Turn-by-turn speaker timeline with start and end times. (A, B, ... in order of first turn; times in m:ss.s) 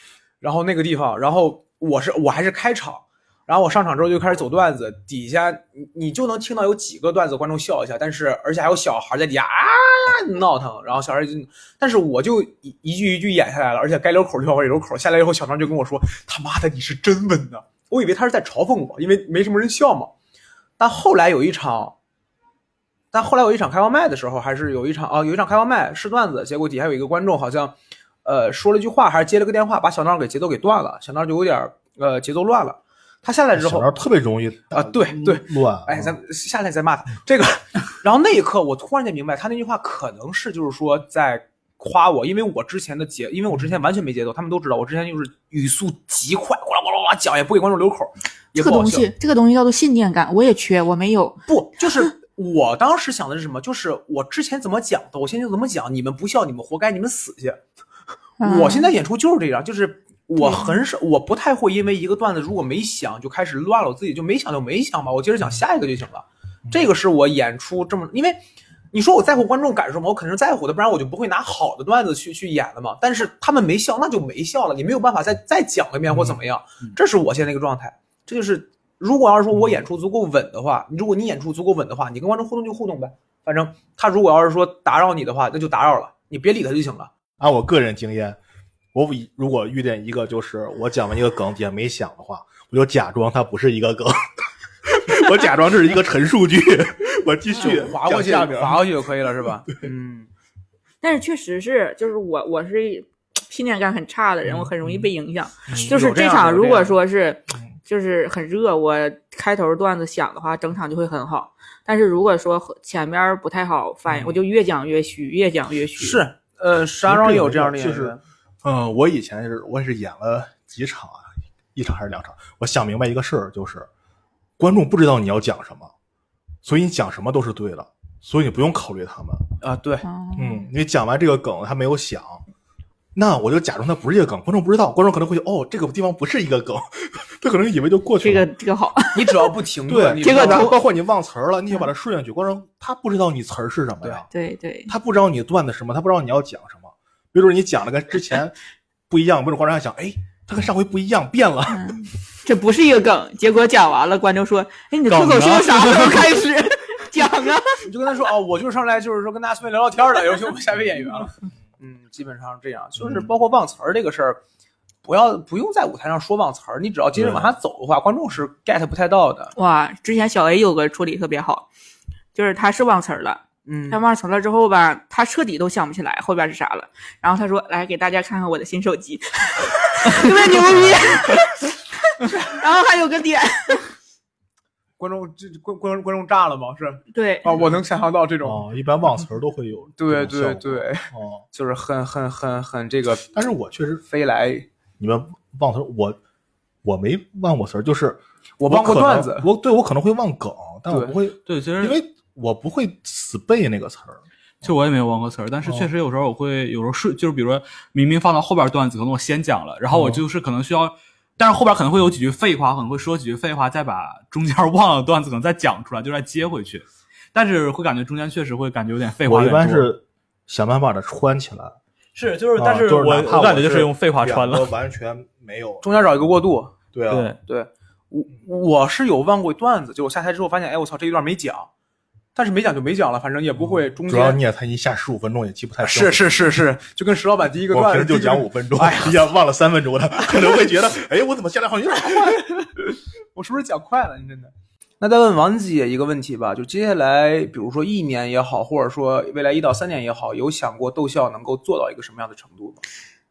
0:00.4-0:20.1 A
0:20.8-0:22.0 A
0:23.1-0:33.9 A
0:33.6-0:36.2 B
0:34.7-0:49.1 A
0:48.6-0:51.4 C
0:51.5-0:57.6 A
0:58.4-0:58.9 C
0:58.4-1:08.4 A
1:00.4-1:00.8 C
1:08.9-1:27.1 A
1:16.1-1:16.4 B
1:27.4-1:28.4 B
1:28.9-1:34.2 B
1:34.8-1:39.5 B
1:37.6-1:40.3 A
1:41.0-1:56.2 C
1:44.4-1:45.1 B
1:45.7-1:45.9 B
1:45.7-1:47.0 A
1:56.0-1:58.2 A
1:57.0-2:03.9 B
2:04.6-2:05.9 B
2:06.6-2:09.4 B
2:09.6-2:10.0 A
2:10.0-2:10.7 C
2:10.4-2:12.4 B
2:13.2-2:18.5 B
2:18.2-2:19.5 C
2:19.2-2:20.7 A
2:19.9-2:24.3 B
2:20.2-2:20.8 C
2:24.3-2:24.9 C
2:24.9-2:28.6 B
2:29.1-2:32.0 B
2:31.7-2:37.9 C
2:35.1-2:36.4 D
2:37.8-2:44.4 A
2:43.0-2:43.3 B
2:45.0-2:49.5 A
2:47.2-2:47.6 B
2:49.6-2:51.7 C
2:52.3-3:03.9 C
2:53.6-2:54.0 A
3:00.7-3:01.2 B
3:05.0-3:08.6 A
3:07.1-3:07.7 C
3:08.4-3:11.4 B
3:10.0-3:13.3 A
3:13.3-3:14.0 B
3:14.0-3:14.7 A
3:15.0-3:16.2 B
3:16.8-3:24.2 B
3:18.6-3:19.5 A
3:20.9-3:21.1 A
3:21.5-3:22.0 D
3:24.6-3:39.9 D
3:29.9-3:30.2 B
3:39.2-3:41.8 B
3:42.2-3:44.7 D
3:42.6-3:45.8 B
3:45.8-3:46.8 A
3:46.9-3:47.4 B
3:47.1-3:47.4 D
3:47.5-3:51.7 A
3:52.4-3:54.4 A
3:53.6-3:56.3 B
3:55.8-3:59.3 A
3:57.7-4:02.4 B
4:00.3-4:00.7 A
4:02.1-4:12.8 A